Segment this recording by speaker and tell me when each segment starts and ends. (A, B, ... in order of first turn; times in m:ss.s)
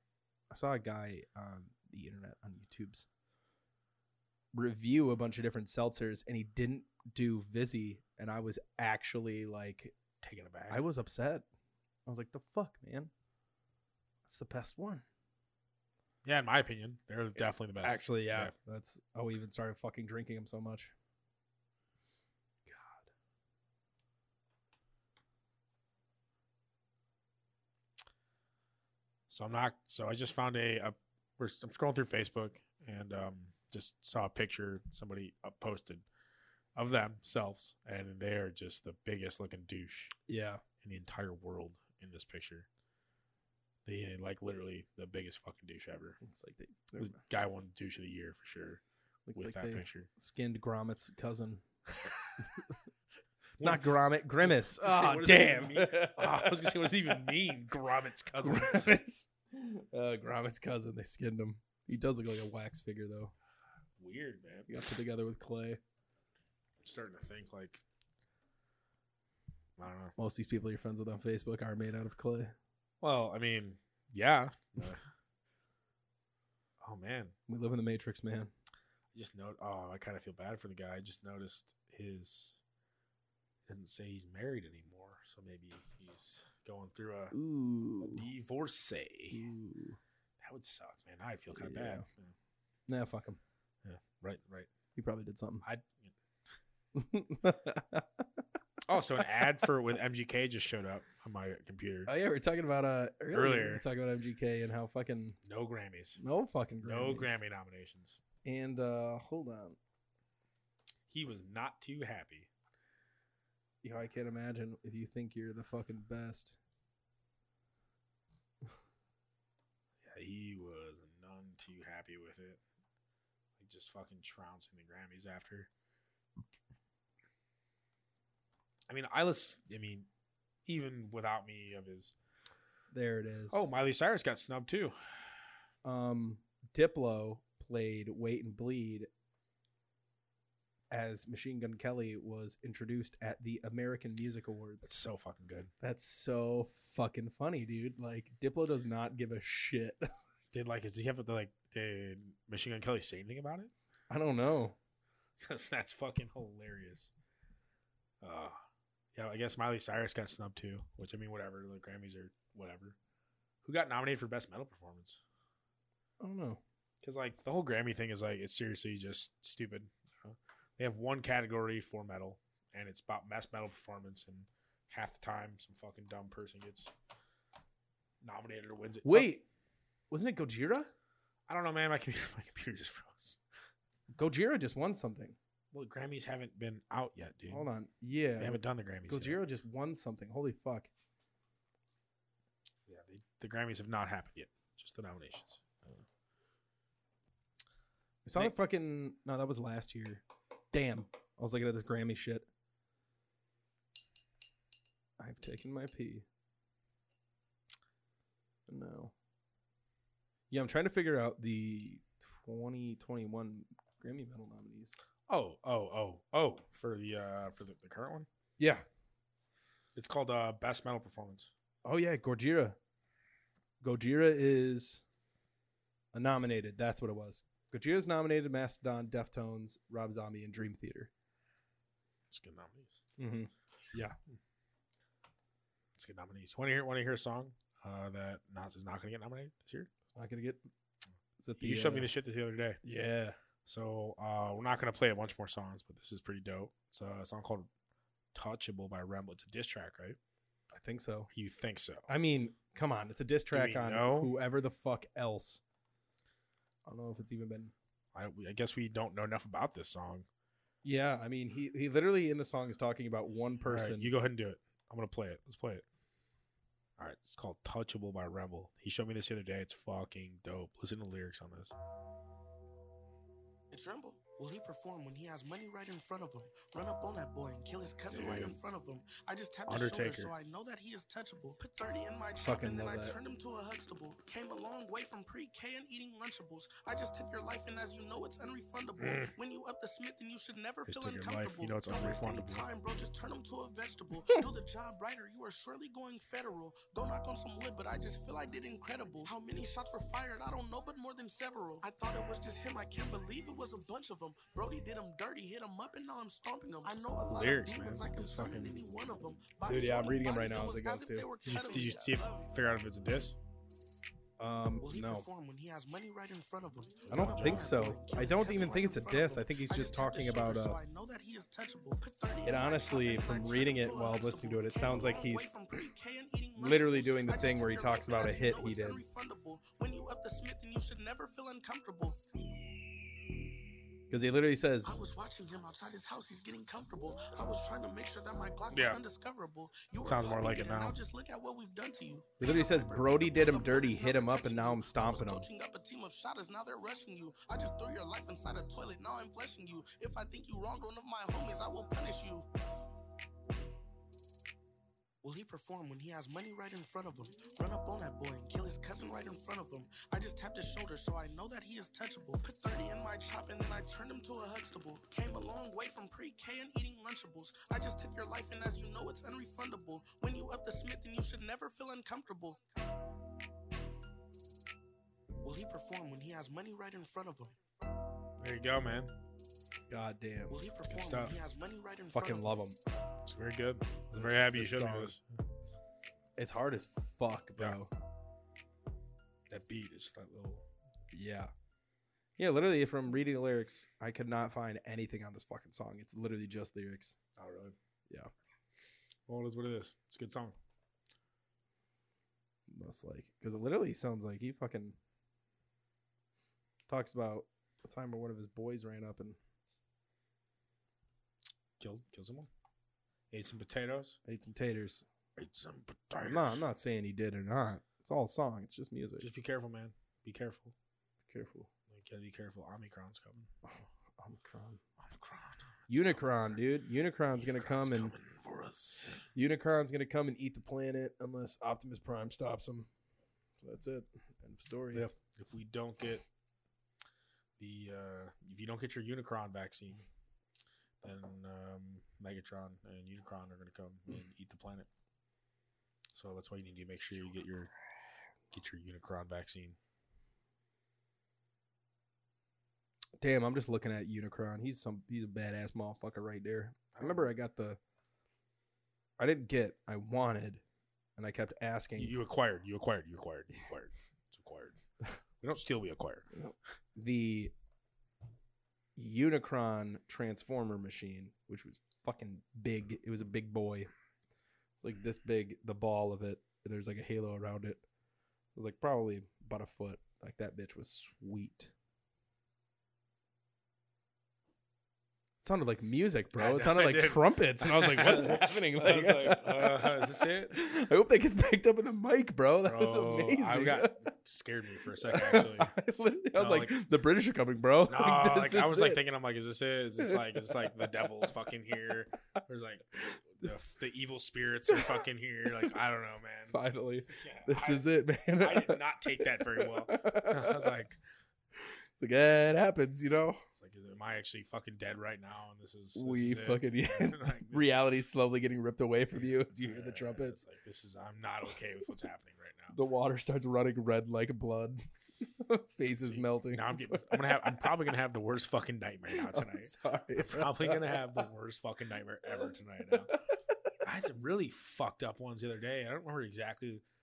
0:00.5-0:03.0 A
0:04.5-0:09.9 A
0:10.2-0:10.8 B
0:10.7-0:11.4 A
0:12.0-0:13.1 A
0:14.2-0:15.0 A
0:16.2-0:18.5 B
0:17.4-0:20.9 A
0:22.7-0:23.1 A
0:29.3-0:36.0 B
0:36.7-0:40.1 B
0:40.3-0:40.6 A
0:40.8-0:42.7 B
0:43.8-0:46.2 B
0:46.2-0:47.2 A
0:47.0-0:48.8 B
0:49.3-0:51.6 A
0:49.3-0:50.1 B
0:52.0-0:52.4 B
0:53.6-0:58.9 B
0:53.6-0:57.0 A
0:58.4-1:03.3 A
1:04.0-1:04.7 B
1:04.7-1:05.8 A
1:06.8-1:07.8 B
1:09.8-1:10.1 B
1:10.2-1:12.5 A
1:13.0-1:15.0 B
1:16.8-1:17.3 B
1:17.5-1:18.5 A
1:19.1-1:22.6 B
1:23.7-1:27.3 B
1:27.3-1:28.2 A
1:28.0-1:29.4 B
1:29.3-1:30.0 A
1:30.4-1:32.3 B
1:31.5-1:32.0 A
1:32.9-1:33.4 A
1:33.8-1:34.7 B
1:35.0-1:35.6 A
1:35.6-1:36.1 B
1:36.9-1:38.2 A
1:38.8-1:42.1 B
1:42.0-1:45.4 A
1:43.3-1:43.8 B
1:45.4-1:46.2 B
1:46.2-1:47.4 A
1:46.8-1:48.2 B
1:48.4-1:49.8 A
1:51.1-1:52.5 B
1:53.8-1:56.6 A
2:00.0-2:02.6 B
2:03.6-2:05.7 B
2:08.9-2:10.1 B
2:10.6-2:12.1 B
2:12.9-2:13.6 A
2:13.5-2:15.0 B
2:15.8-2:19.1 A
2:20.9-2:24.9 A
2:24.8-2:25.7 B
2:25.8-2:30.1 A
2:30.5-2:33.7 B
2:34.1-2:34.8 A
2:35.4-2:37.1 B
2:38.2-2:38.6 B
2:39.1-2:43.0 B
2:43.6-2:45.2 B
2:46.2-2:46.6 A
2:47.0-2:56.9 B
2:58.2-2:59.3 B
2:59.0-2:59.4 A
3:00.1-3:00.9 A
3:01.5-3:03.4 B
3:04.1-3:05.4 A
3:05.7-3:07.7 B
3:07.5-3:10.9 A
3:08.4-3:09.4 B
3:12.9-3:16.0 B
3:18.2-3:22.4 A
3:25.2-3:26.2 A
3:28.7-3:29.1 A
3:30.5-3:34.9 A
3:35.3-3:38.3 B
3:38.6-3:38.8 A
3:39.9-3:41.5 B
3:41.8-3:42.8 A
3:43.8-3:45.0 A
3:46.1-3:51.1 A
3:52.3-3:53.0 B
3:53.2-3:54.2 A
3:55.9-3:59.9 B
4:00.1-4:00.6 A
4:01.4-4:02.1 A
4:01.6-4:02.8 B
4:02.8-4:03.4 A
4:03.6-4:07.7 B
4:08.3-4:10.2 B
4:10.7-4:11.3 A
4:11.3-4:12.1 B
4:12.1-4:15.6 A
4:13.5-4:14.3 B
4:16.8-4:17.7 A
4:18.1-4:20.3 B
4:20.8-4:24.1 A
4:23.6-4:25.8 B
4:27.0-4:31.7 B
4:33.7-5:12.2 C
4:38.1-4:38.6 B
4:39.7-4:40.3 B
4:42.4-4:43.2 A
4:49.0-4:49.3 B
4:50.8-4:52.6 B
5:07.3-5:08.8 B
5:09.6-5:11.3 A
5:11.4-5:13.4 B
5:14.4-5:15.2 A
5:14.8-5:32.2 C
5:17.1-5:17.7 B
5:17.1-5:20.8 A
5:22.4-5:25.5 A
5:26.6-5:29.0 A
5:34.1-5:35.0 A
5:34.8-5:52.5 C
5:38.7-5:39.0 B
5:40.0-5:41.0 B
5:42.4-5:45.5 A
5:55.2-6:12.6 C
6:15.4-6:17.6 C
6:18.4-6:19.1 B
6:19.9-6:20.6 A
6:20.5-6:22.6 C
6:20.9-6:21.4 B
6:22.1-6:22.8 A
6:23.2-6:25.2 B
6:24.1-6:25.2 A
6:26.4-6:27.9 A
6:29.5-6:30.6 B
6:31.1-6:31.5 A
6:32.4-6:37.2 A
6:37.4-6:37.8 B
6:39.3-6:40.6 B
6:42.7-6:45.0 A
6:46.9-6:49.4 A
6:51.8-6:52.5 B
6:53.3-6:54.2 B
6:54.2-6:55.0 A
6:55.4-6:56.6 B
6:56.2-6:59.3 A
6:59.2-7:00.7 B
7:01.3-7:01.7 A
7:01.9-7:03.5 B
7:03.6-7:04.8 A
7:05.0-7:06.5 B
7:05.9-7:08.1 A
7:07.3-7:09.3 B
7:09.3-7:12.9 A
7:13.6-7:15.1 A
7:14.9-7:16.2 B
7:17.6-7:20.0 B
7:21.0-7:24.9 B
7:26.1-7:27.7 B
7:28.5-7:29.8 B
7:33.2-7:37.8 A
7:39.2-7:40.6 A
7:41.2-7:42.2 A
7:42.0-7:44.8 B
7:45.4-7:46.2 B
7:46.3-7:47.5 A
7:49.0-7:53.9 A
7:54.8-7:57.8 A
7:58.5-8:01.7 A
8:05.4-8:14.0 A
8:06.4-8:10.6 B
8:12.6-8:15.7 B
8:15.0-8:19.0 A
8:16.3-8:16.8 B
8:17.8-8:26.6 B
8:26.5-8:30.7 A
8:27.1-8:31.0 B
8:32.0-8:33.4 A
8:33.5-8:37.7 B
8:35.9-8:40.4 A
8:39.2-8:42.8 B
8:42.7-8:47.7 A
8:46.0-8:53.1 B
8:49.1-8:51.1 A
8:53.8-8:56.8 B